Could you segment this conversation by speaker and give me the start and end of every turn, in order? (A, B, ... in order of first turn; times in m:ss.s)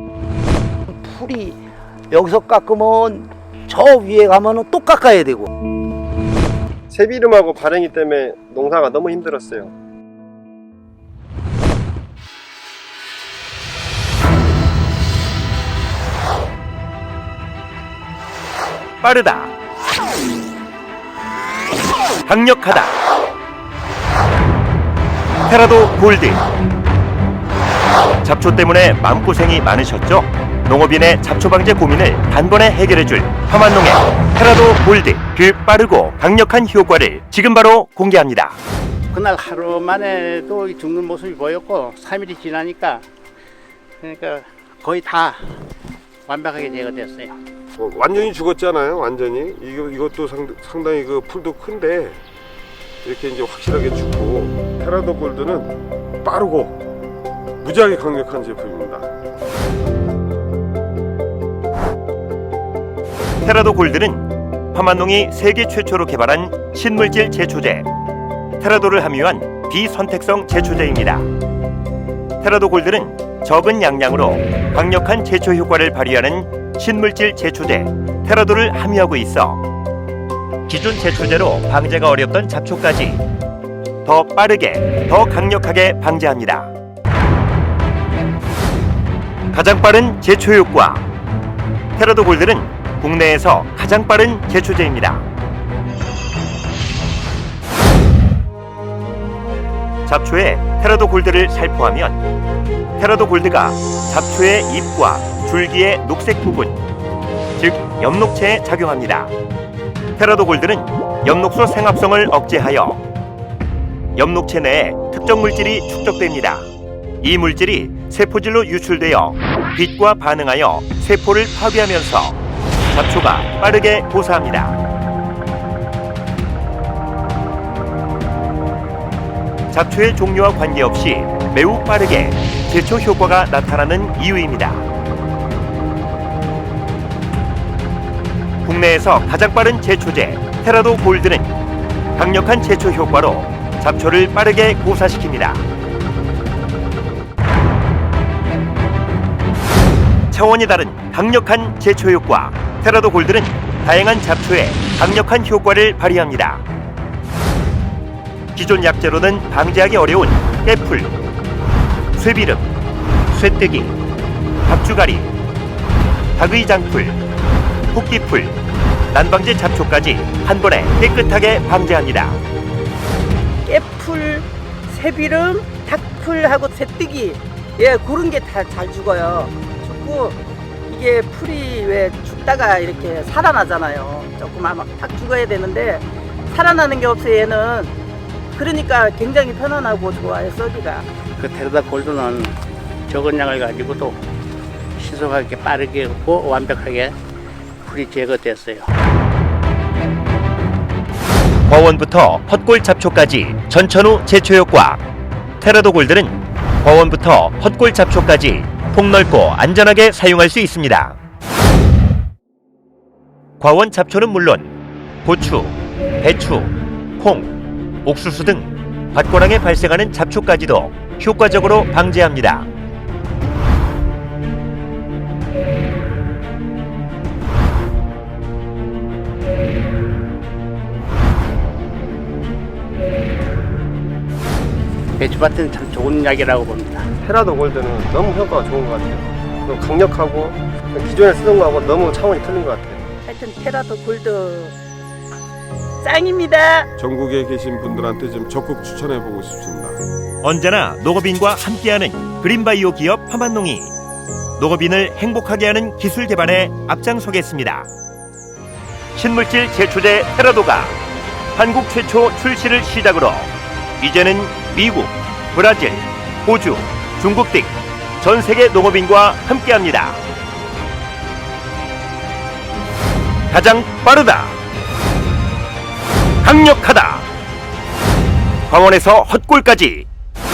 0:00.9-0:01.6 A
0:02.1-0:05.5 A
0:06.9-0:09.7 B
0:19.0-0:19.5 C
0:22.2-0:23.0 C
0:25.5-0:26.4 C
0:28.2-0:38.6 C
0:39.1-0:43.0 D
0:44.0-0:45.5 D
0:46.3-0:47.4 D
0:47.8-0:52.2 E
0:53.0-0:56.8 E
0:57.6-0:59.1 E
1:03.4-1:07.9 C
1:08.6-1:11.3 C
1:12.4-1:19.6 C
1:20.7-1:23.2 C
1:24.0-1:26.7 C
1:29.5-1:31.1 C
1:32.0-1:35.3 C
1:40.1-1:42.2 C
1:43.0-1:46.8 C
1:47.6-1:49.3 C
1:50.2-1:53.0 C
1:54.2-1:56.7 C
1:57.2-2:02.4 C
2:02.9-2:04.8 C
2:09.7-2:14.8 C
2:18.6-2:21.5 C
2:22.2-2:25.6 C
2:30.3-2:36.6 C
2:38.5-2:41.1 C
2:42.2-2:42.7 C
2:43.3-2:44.0 C
2:44.7-2:45.3 C
2:46.4-2:47.2 C
2:47.9-2:48.6 C
2:49.1-2:52.4 C
2:53.6-3:07.9 F
3:08.5-3:11.0 F
3:11.4-3:12.5 D
3:13.1-3:14.2 D
3:15.0-3:17.1 D
3:17.8-3:18.9 D
3:21.7-3:25.0 C
3:25.6-3:31.2 C
3:33.6-3:37.5 C
3:38.0-3:42.7 C
3:55.2-3:57.1 D
3:57.2-4:03.0 B
4:03.2-4:04.8 F
4:06.0-4:06.9 F
4:07.0-4:10.0 E
4:10.4-4:13.9 C
4:14.6-4:17.9 C
4:19.1-4:21.0 C
4:21.6-4:30.2 C
4:33.5-4:34.6 C
4:36.4-4:37.3 C
4:38.7-4:40.1 C